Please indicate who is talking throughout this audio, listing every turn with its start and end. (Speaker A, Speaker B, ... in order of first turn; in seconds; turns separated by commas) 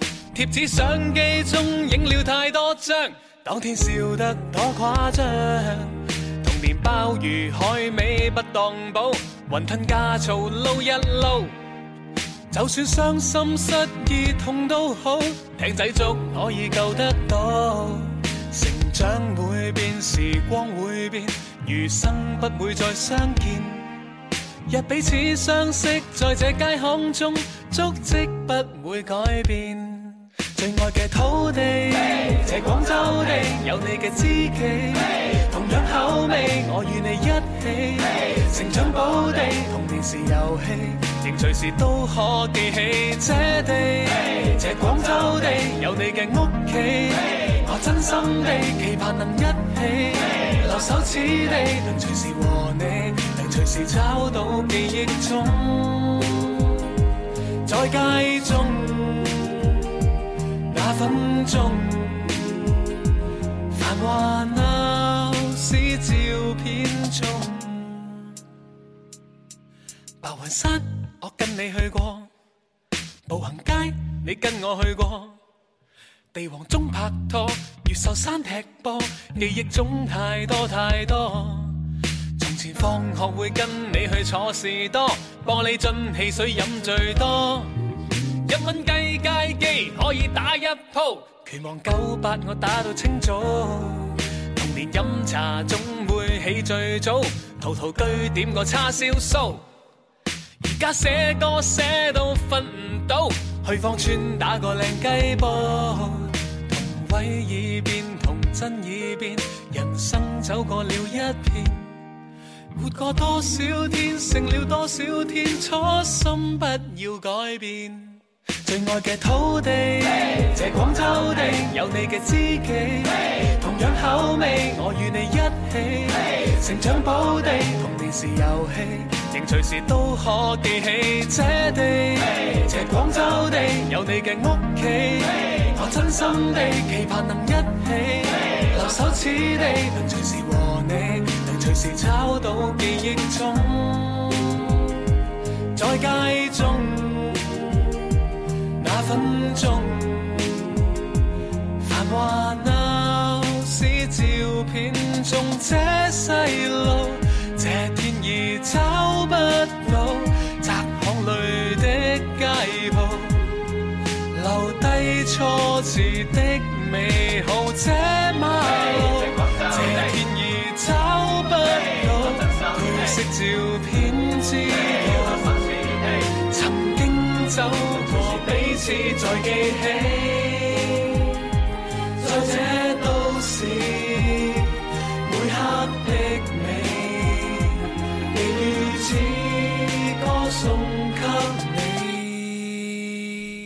Speaker A: 0.3-11.5, Speaker A: 12.5-24.0, Speaker A: 24.7-56.8, Speaker A: 57.6-59.9, Speaker A: 60.7-62.7, Speaker A: 63.7-68.3, Speaker A: 70.2-72.3, Speaker A: 73.3-75.4, Speaker A: 76.3-81.9, Speaker A: 82.4-87.7, Speaker A: 88.5-99.7, Speaker A: 100.6-112.0, Speaker A: 112.8-144.9, Speaker A: 145.7-148.0, Speaker A: 148.8-150.8, Speaker A: 151.8-163.5, Speaker A: 164.3-181.5, Speaker A: 182.2-193.5